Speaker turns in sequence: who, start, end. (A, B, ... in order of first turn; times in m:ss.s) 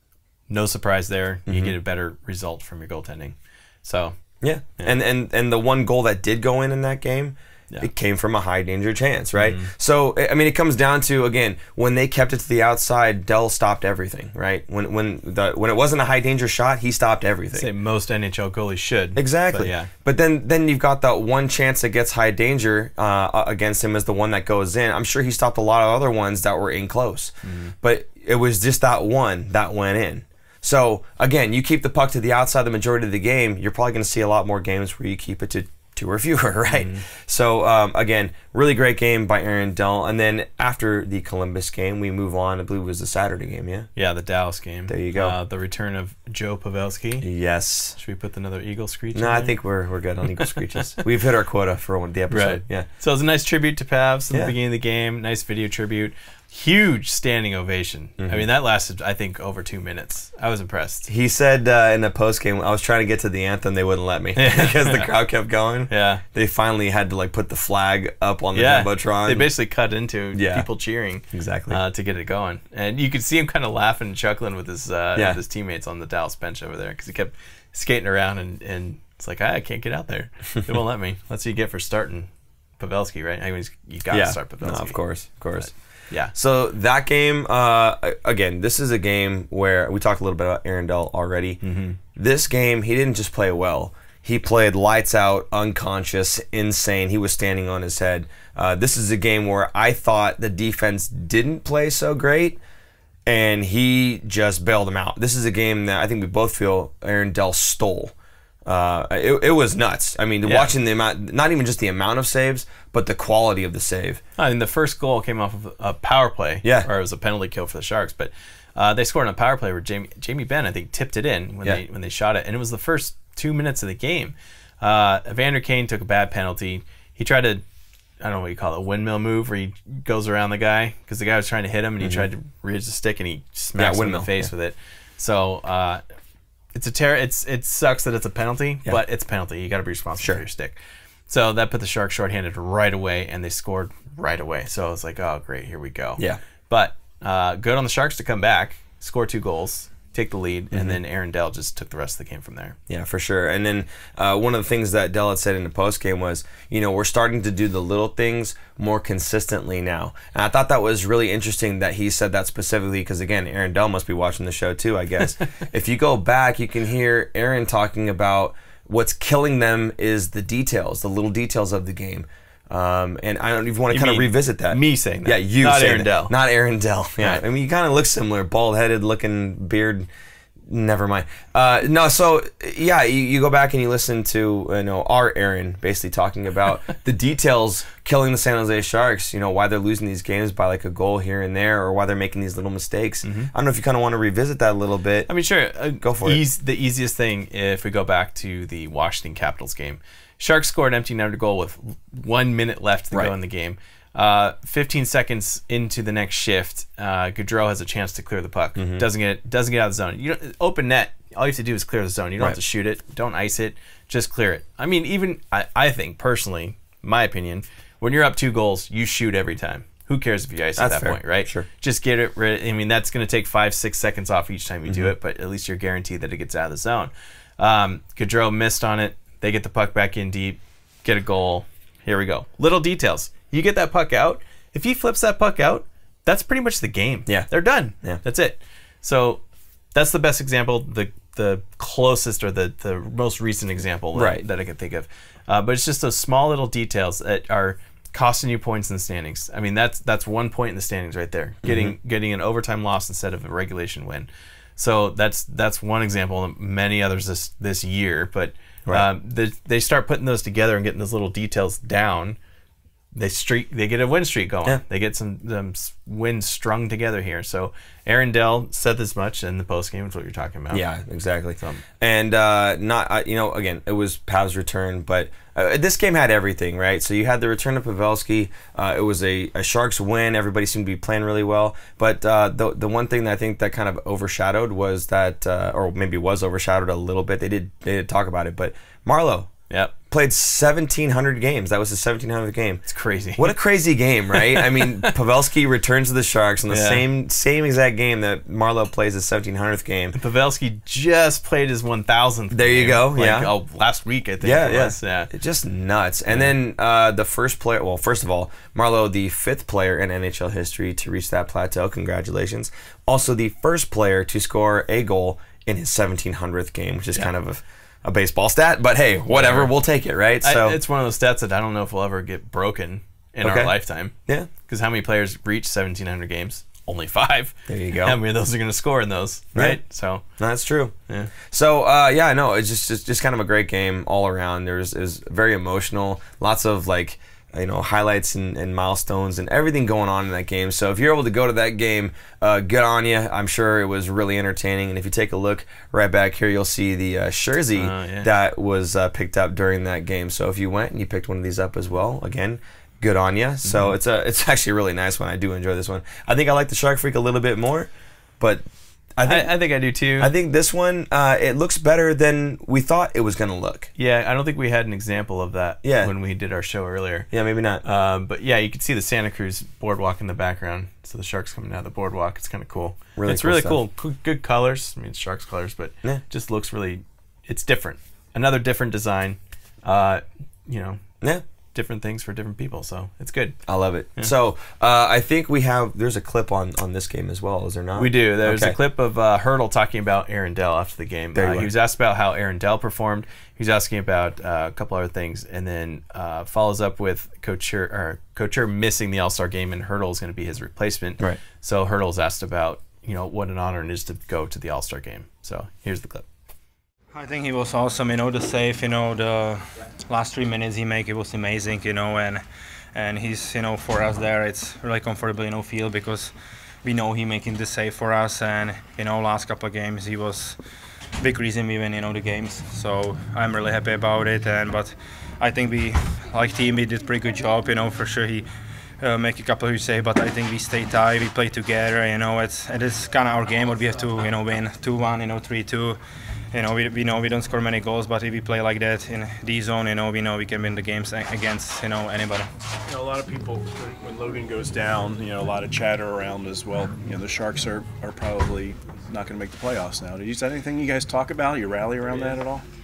0:00.5-0:04.2 A
0:01.5-0:01.7 B
0:04.4-0:17.7 B
0:09.3-0:09.7 A
0:17.5-0:19.9 A
0:19.1-0:43.9 B
0:27.4-0:27.7 A
0:36.7-0:37.0 A
0:44.0-0:47.2 A
0:44.9-0:45.4 B
0:47.2-0:48.0 B
0:48.0-0:49.6 A
0:49.1-0:52.9 B
0:50.3-0:51.0 A
0:52.3-1:01.1 A
0:58.2-0:58.4 B
1:01.1-1:09.5 B
1:04.4-1:05.1 A
1:05.9-1:06.2 A
1:08.5-1:25.0 A
1:10.3-1:10.7 B
1:11.3-1:11.8 B
1:24.1-1:25.7 B
1:25.6-1:26.3 A
1:26.3-1:31.6 B
1:31.6-1:32.0 A
1:32.1-1:42.6 B
1:43.2-1:48.1 B
1:48.6-1:54.2 B
1:50.4-1:50.7 A
1:54.4-2:07.6 A
2:08.2-2:16.0 A
2:13.8-2:14.5 B
2:16.7-2:20.8 A
2:21.3-2:32.8 A
2:30.7-2:31.0 B
2:32.9-3:00.1 B
2:53.9-2:56.3 A
3:00.7-3:15.3 B
3:13.2-3:13.5 A
3:15.3-3:59.4 A
3:16.0-3:16.4 B
3:28.8-3:29.0 B
3:40.8-3:41.7 B
3:44.9-3:45.1 B
3:59.9-4:22.4 A
4:04.1-4:04.4 B
4:11.6-4:11.9 B
4:23.1-4:30.8 A
4:30.7-4:49.5 B
4:50.1-4:52.8 B
4:52.8-4:53.5 A
4:53.4-5:00.2 B
4:54.3-4:55.1 A
4:56.7-4:57.0 A
5:00.1-5:05.3 A
5:02.5-5:03.5 B
5:04.4-5:20.8 B
5:19.3-5:19.7 A
5:20.4-5:30.2 A
5:23.4-5:23.7 B
5:27.7-5:28.2 B
5:30.4-5:58.6 B
5:47.8-5:48.3 A
5:53.6-5:53.9 A
5:59.2-5:59.5 B
5:59.2-6:00.3 A
6:00.2-6:03.9 B
6:04.0-6:07.3 A
6:05.8-6:06.1 B
6:07.3-6:07.8 B
6:07.8-6:21.0 A
6:13.2-6:13.8 B
6:21.7-6:23.6 A
6:23.7-6:28.8 B
6:28.0-6:46.2 A
6:31.3-6:31.7 B
6:47.1-6:52.4 C
6:52.9-6:56.3 C
6:56.8-7:00.6 C
7:01.2-7:08.4 C
7:09.0-7:16.0 C
7:16.5-7:22.5 C
7:22.9-7:32.6 D